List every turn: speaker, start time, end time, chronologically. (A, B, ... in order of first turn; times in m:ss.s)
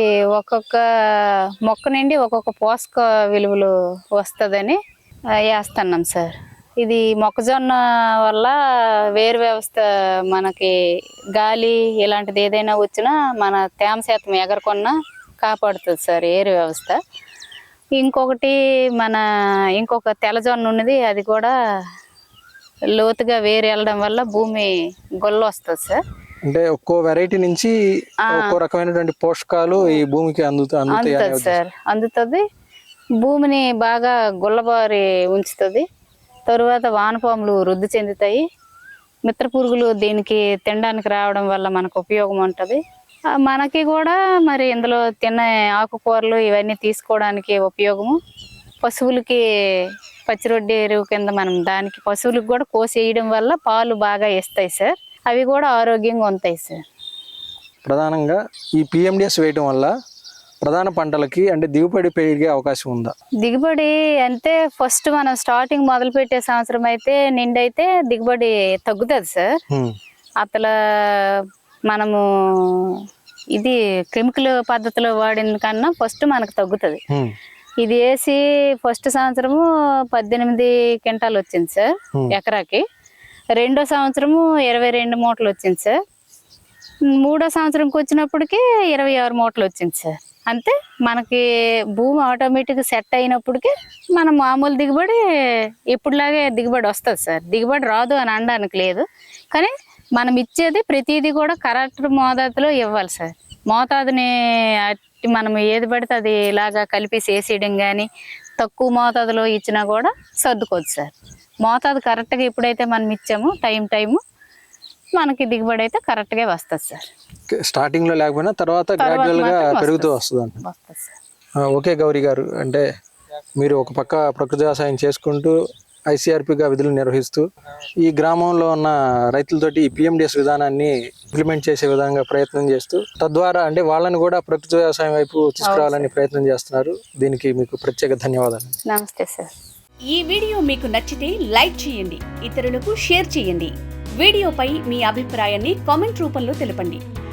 0:00.3-0:00.8 A
0:01.6-0:04.8 A
0:05.5-0:08.5 A
0:09.0-0:10.7 A
0:11.4-0:17.0 A
0:18.0-0:19.2 A
0:19.8-0:21.5 A
0:22.9-0:26.0 A
0:26.4-0:31.6 B
0:28.2-0:28.6 A
0:30.9-0:32.4 A
0:33.2-0:35.8 A
0:36.5-0:38.4 A
0:39.2-0:42.8 A
0:43.4-0:48.2 A
0:48.8-0:49.4 A
0:50.3-0:56.8 A
0:57.8-0:59.9 B
1:00.6-1:03.1 B
1:03.4-1:09.6 A
1:10.4-1:11.4 A
1:11.9-1:12.9 A
1:13.6-1:17.0 A
1:17.8-1:22.8 A
1:23.6-1:26.0 A
1:27.2-1:31.4 A
1:32.0-1:35.2 A
1:35.9-1:48.1 A
1:48.6-1:51.1 A
1:51.6-1:54.2 A
1:55.2-1:57.1 A
1:57.5-2:00.6 B
1:59.0-2:01.2 A
2:01.6-2:02.8 B
2:03.6-2:05.6 B
2:06.1-2:07.4 B
2:08.0-2:18.8 B
2:15.6-2:16.1 A
2:18.9-2:19.5 A
2:20.1-2:27.0 C